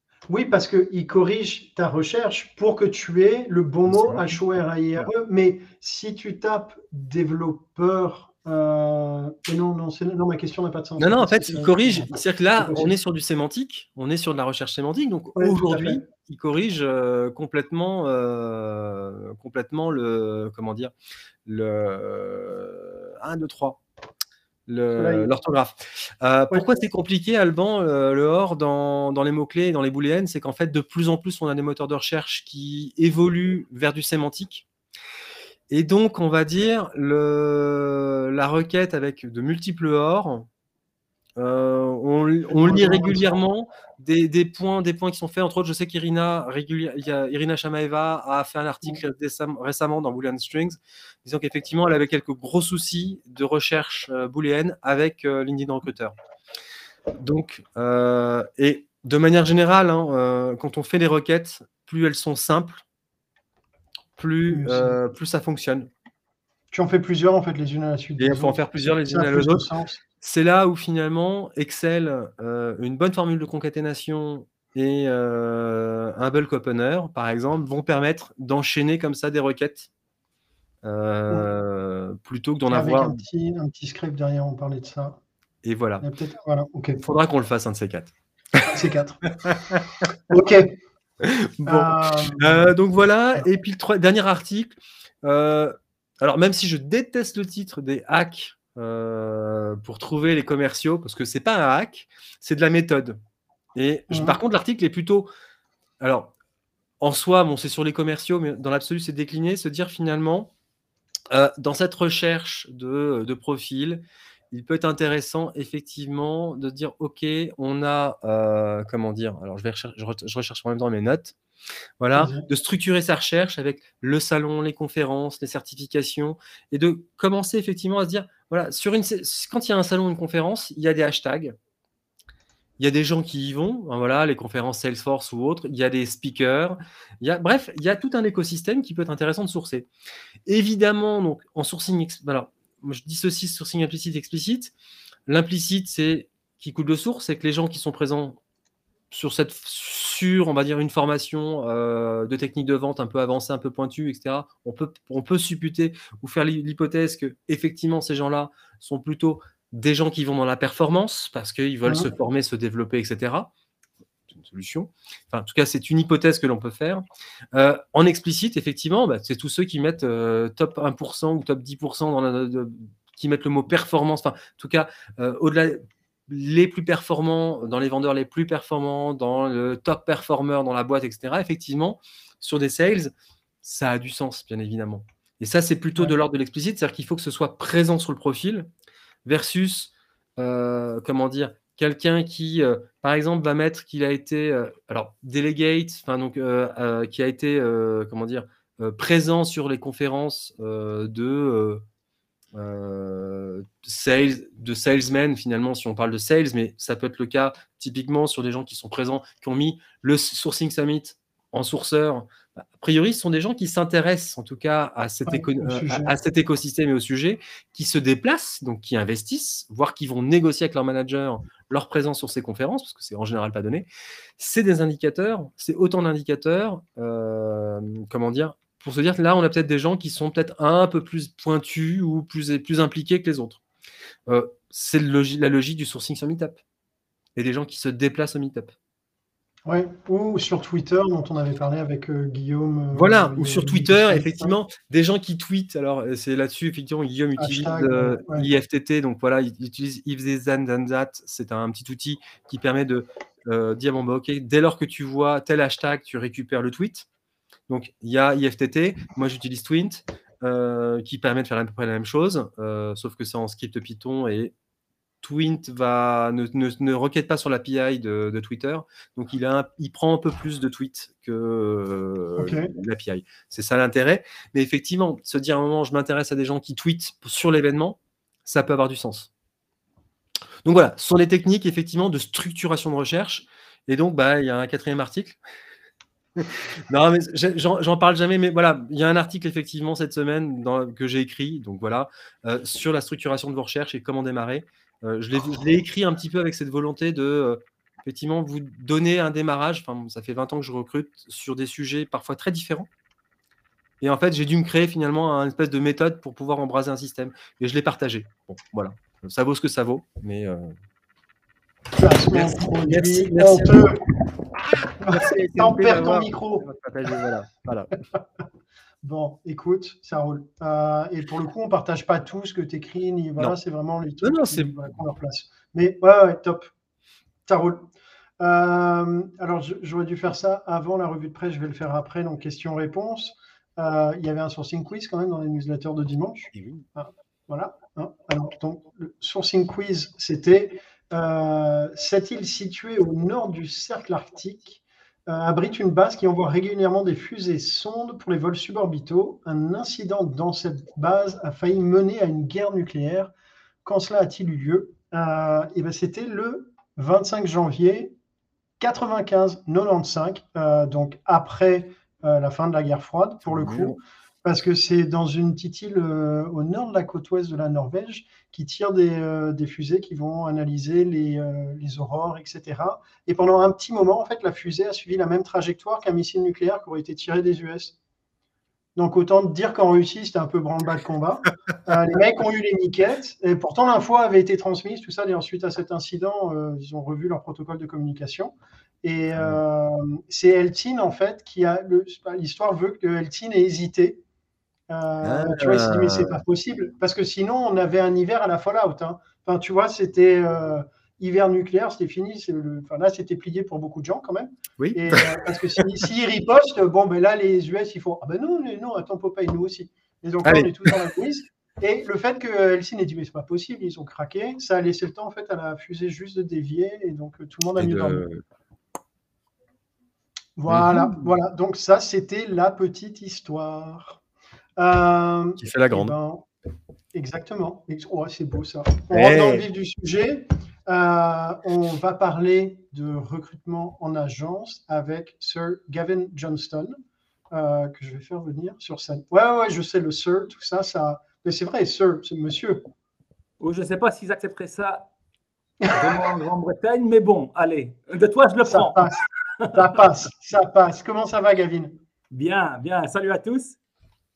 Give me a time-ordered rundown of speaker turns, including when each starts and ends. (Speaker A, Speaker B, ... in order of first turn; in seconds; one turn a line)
Speaker A: 0.3-12.9
Speaker B: 3.9-4.3
Speaker B: 11.0-20.9
Speaker A: 15.3-16.0
Speaker B: 21.4-23.8
Speaker B: 24.7-34.6
Speaker A: 24.9-25.3
Speaker B: 35.7-40.5
Speaker B: 41.4-56.1
Speaker A: 42.5-43.3
Speaker B: 57.2-62.8
Speaker B: 64.2-65.9
Speaker A: 64.5-65.0
Speaker A: 66.7-70.0
Speaker B: 68.2-69.6
Speaker B: 70.2-79.9
Speaker B: 80.8-83.2
Speaker A: 82.7-85.2
Speaker B: 85.6-86.0
Speaker A: 86.0-87.0
Speaker B: 87.0-88.7
Speaker A: 88.7-89.3
Speaker B: 89.4-89.8
Speaker A: 90.3-90.7
Speaker B: 91.2-103.2
Speaker A: 91.6-92.7
Speaker B: 103.8-105.3
Speaker A: 104.1-104.4
Speaker B: 106.0-106.3
Speaker B: 107.0-110.5
Speaker B: 111.3-121.3
Speaker B: 122.0-131.5
Speaker A: 122.2-122.5
Speaker B: 132.8-139.9
Speaker B: 140.4-144.7
Speaker B: 145.3-148.4
Speaker B: 149.1-163.5
Speaker B: 164.3-188.7
Speaker B: 189.2-201.8
Speaker B: 202.5-223.9
Speaker A: 215.2-216.1
Speaker B: 224.4-233.6
Speaker B: 234.3-236.6
Speaker B: 237.3-238.7
Speaker A: 239.7-244.5
Speaker B: 242.9-257.1
Speaker A: 247.4-248.5
Speaker B: 257.7-264.5
Speaker B: 265.2-279.3
Speaker A: 272.4-272.7
Speaker B: 280.6-285.4
Speaker B: 286.4-302.9
Speaker B: 304.0-310.7
Speaker A: 312.0-314.0
Speaker B: 312.3-313.9
Speaker A: 315.0-316.6
Speaker B: 315.1-317.9
Speaker A: 319.0-326.7
Speaker B: 324.2-324.9
Speaker A: 327.4-327.9
Speaker A: 328.4-353.3
Speaker B: 336.5-336.8
Speaker A: 353.8-358.1
Speaker A: 358.8-378.0
Speaker B: 363.4-364.0
Speaker A: 378.9-394.2
Speaker A: 394.9-418.2
Speaker B: 395.2-396.4
Speaker B: 404.8-405.2
Speaker B: 410.4-410.9
Speaker B: 417.8-418.4
Speaker A: 420.6-424.2
Speaker B: 420.7-421.3
Speaker A: 424.8-426.5
Speaker B: 425.6-426.1
Speaker A: 427.1-436.9
Speaker B: 429.1-429.6
Speaker A: 437.5-442.8
Speaker C: 443.6-445.1
Speaker A: 445.8-446.3
Speaker C: 445.9-449.8
Speaker A: 448.6-449.2
Speaker A: 449.7-451.9
Speaker C: 452.3-453.8